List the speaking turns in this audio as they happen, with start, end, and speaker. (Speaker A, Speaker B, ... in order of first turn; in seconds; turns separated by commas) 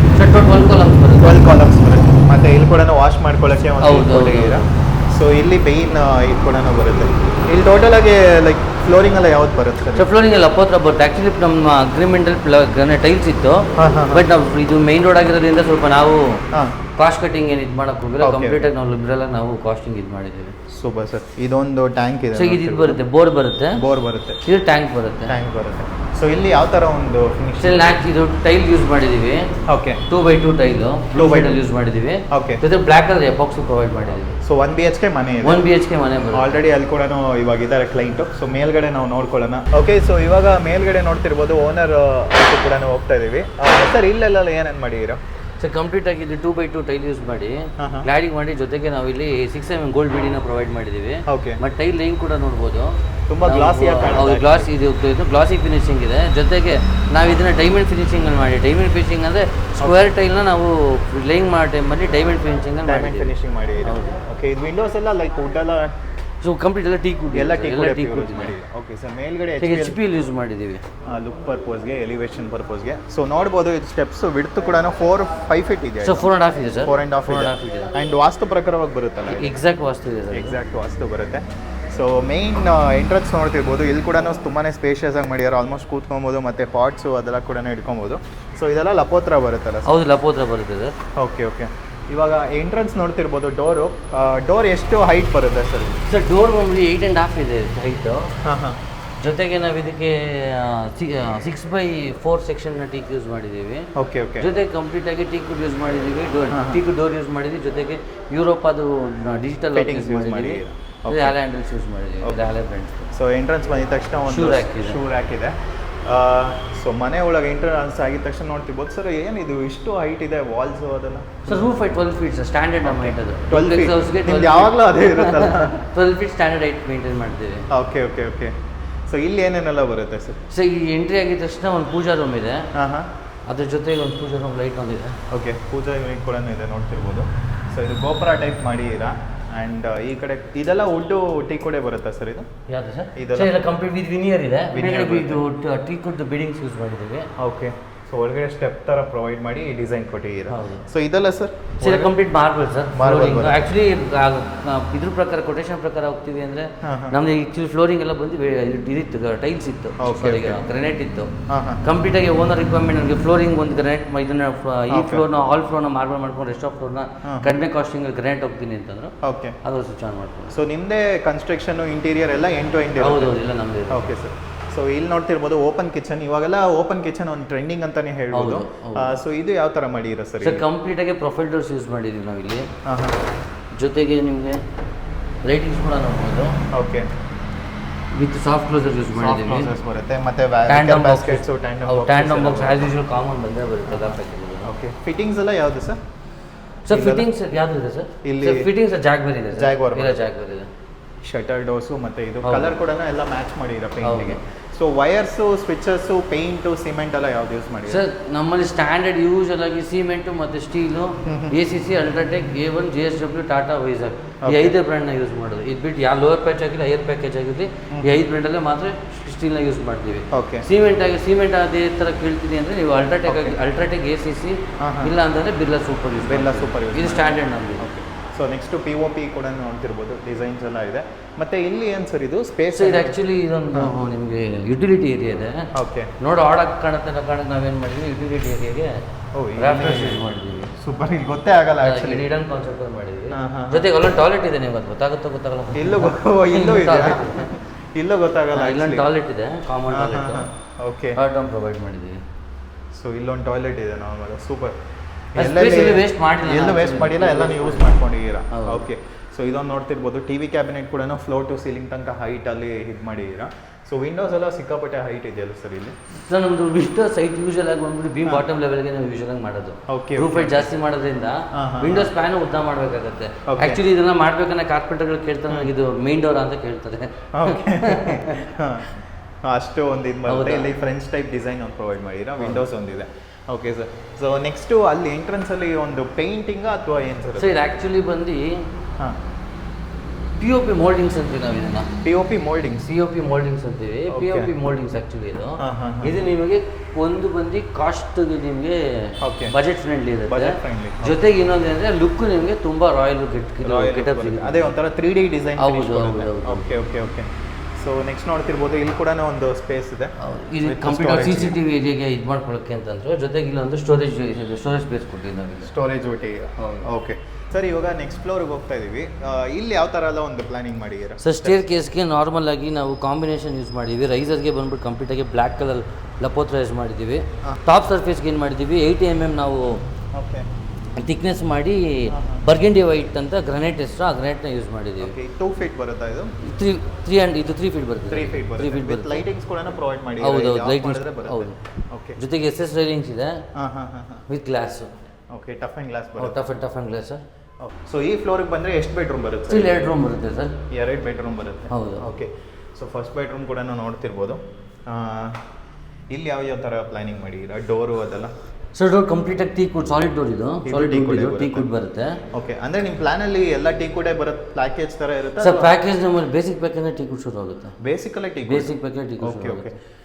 Speaker A: 0.1-1.6, Speaker B: 1.2-10.1, Speaker A: 3.8-4.7, Speaker A: 10.0-16.4, Speaker B: 13.8-14.3, Speaker A: 17.0-20.6, Speaker B: 18.2-18.7, Speaker B: 20.7-23.0, Speaker A: 22.3-23.8, Speaker B: 23.8-24.4, Speaker A: 24.4-25.3, Speaker B: 25.3-28.0, Speaker A: 27.6-29.5, Speaker B: 29.7-30.0, Speaker A: 30.1-34.4, Speaker B: 31.1-31.6, Speaker B: 32.3-32.6, Speaker B: 34.4-35.6, Speaker A: 35.4-36.5, Speaker B: 36.3-45.2, Speaker A: 45.6-64.2, Speaker B: 47.8-48.1, Speaker B: 51.3-51.6, Speaker B: 53.3-54.7, Speaker B: 62.9-65.9, Speaker A: 66.4-68.5, Speaker B: 67.3-70.0, Speaker A: 69.6-70.8, Speaker B: 71.1-76.3, Speaker A: 76.0-77.9, Speaker B: 76.8-79.6, Speaker A: 79.3-80.6, Speaker B: 80.3-89.9, Speaker A: 89.9-91.0, Speaker B: 91.2-96.0, Speaker A: 96.1-98.3, Speaker B: 98.4-98.8, Speaker A: 99.2-113.1, Speaker B: 104.0-104.5, Speaker B: 106.5-106.8, Speaker B: 109.7-111.4, Speaker B: 113.1-121.7, Speaker A: 114.3-115.0, Speaker A: 121.5-127.7, Speaker B: 122.8-125.8, Speaker B: 127.7-128.5, Speaker B: 129.1-130.4, Speaker A: 130.5-132.7, Speaker B: 132.8-133.1, Speaker A: 133.5-135.2, Speaker B: 135.3-142.5, Speaker A: 142.7-147.3, Speaker B: 143.2-143.6, Speaker B: 144.7-145.4, Speaker B: 147.4-152.1, Speaker A: 150.5-150.9, Speaker A: 151.8-170.5, Speaker B: 152.9-153.7, Speaker B: 156.8-157.2, Speaker B: 160.0-160.6, Speaker B: 161.5-161.8, Speaker B: 164.9-165.2, Speaker B: 167.2-167.6, Speaker B: 169.2-169.6, Speaker B: 170.5-173.3, Speaker A: 173.0-174.2, Speaker B: 173.9-180.6, Speaker A: 178.3-179.2, Speaker A: 180.4-182.7, Speaker B: 182.8-183.2, Speaker A: 183.7-184.6, Speaker A: 185.4-186.6, Speaker B: 186.7-187.1, Speaker A: 188.1-189.7, Speaker B: 189.1-192.8, Speaker A: 190.7-194.7, Speaker B: 193.9-196.0, Speaker A: 196.9-200.7, Speaker B: 196.9-197.3, Speaker B: 198.2-198.7, Speaker B: 199.5-200.2, Speaker B: 201.2-208.0, Speaker A: 202.4-202.8, Speaker A: 204.0-204.4, Speaker A: 207.9-227.9, Speaker B: 211.2-211.6, Speaker B: 214.4-214.8, Speaker B: 217.9-218.2, Speaker B: 220.3-220.7, Speaker B: 223.3-223.6, Speaker B: 224.8-225.2, Speaker B: 226.2-233.1, Speaker A: 232.7-238.9, Speaker B: 235.7-236.1, Speaker B: 239.3-240.2, Speaker A: 239.6-240.7, Speaker B: 240.8-242.2, Speaker A: 241.8-247.5, Speaker B: 243.3-243.9, Speaker B: 245.7-249.1, Speaker A: 248.5-250.5, Speaker B: 249.9-251.2, Speaker A: 251.2-252.2, Speaker B: 252.9-254.8, Speaker B: 255.3-266.0, Speaker A: 255.4-258.0, Speaker A: 258.5-258.9, Speaker A: 266.1-278.4, Speaker B: 269.9-270.7, Speaker B: 271.5-272.1, Speaker B: 273.5-273.8, Speaker B: 277.3-287.6, Speaker A: 280.3-280.7, Speaker A: 287.4-288.7, Speaker A: 290.4-291.9, Speaker B: 292.0-292.9, Speaker A: 292.8-304.8, Speaker B: 294.1-294.5, Speaker B: 295.6-296.2, Speaker B: 299.2-299.6, Speaker B: 300.3-301.2, Speaker B: 303.6-311.6, Speaker A: 305.6-306.8, Speaker A: 310.2-315.7, Speaker B: 315.6-321.7, Speaker A: 316.6-316.9, Speaker A: 321.2-329.8, Speaker B: 330.1-330.4, Speaker A: 331.0-335.1, Speaker B: 332.1-332.4, Speaker B: 335.0-336.4, Speaker A: 336.4-339.3, Speaker B: 338.1-342.2, Speaker A: 340.2-341.6, Speaker A: 342.2-343.4, Speaker B: 343.6-344.2, Speaker A: 344.3-344.9, Speaker B: 345.3-346.5, Speaker A: 346.2-347.2, Speaker B: 347.6-349.9, Speaker A: 349.5-350.6, Speaker B: 350.7-355.4, Speaker A: 351.7-352.1, Speaker B: 356.1-358.3, Speaker A: 358.8-362.2, Speaker B: 360.6-361.7, Speaker B: 362.3-365.7, Speaker A: 365.4-367.8, Speaker B: 367.8-369.8, Speaker A: 368.5-369.7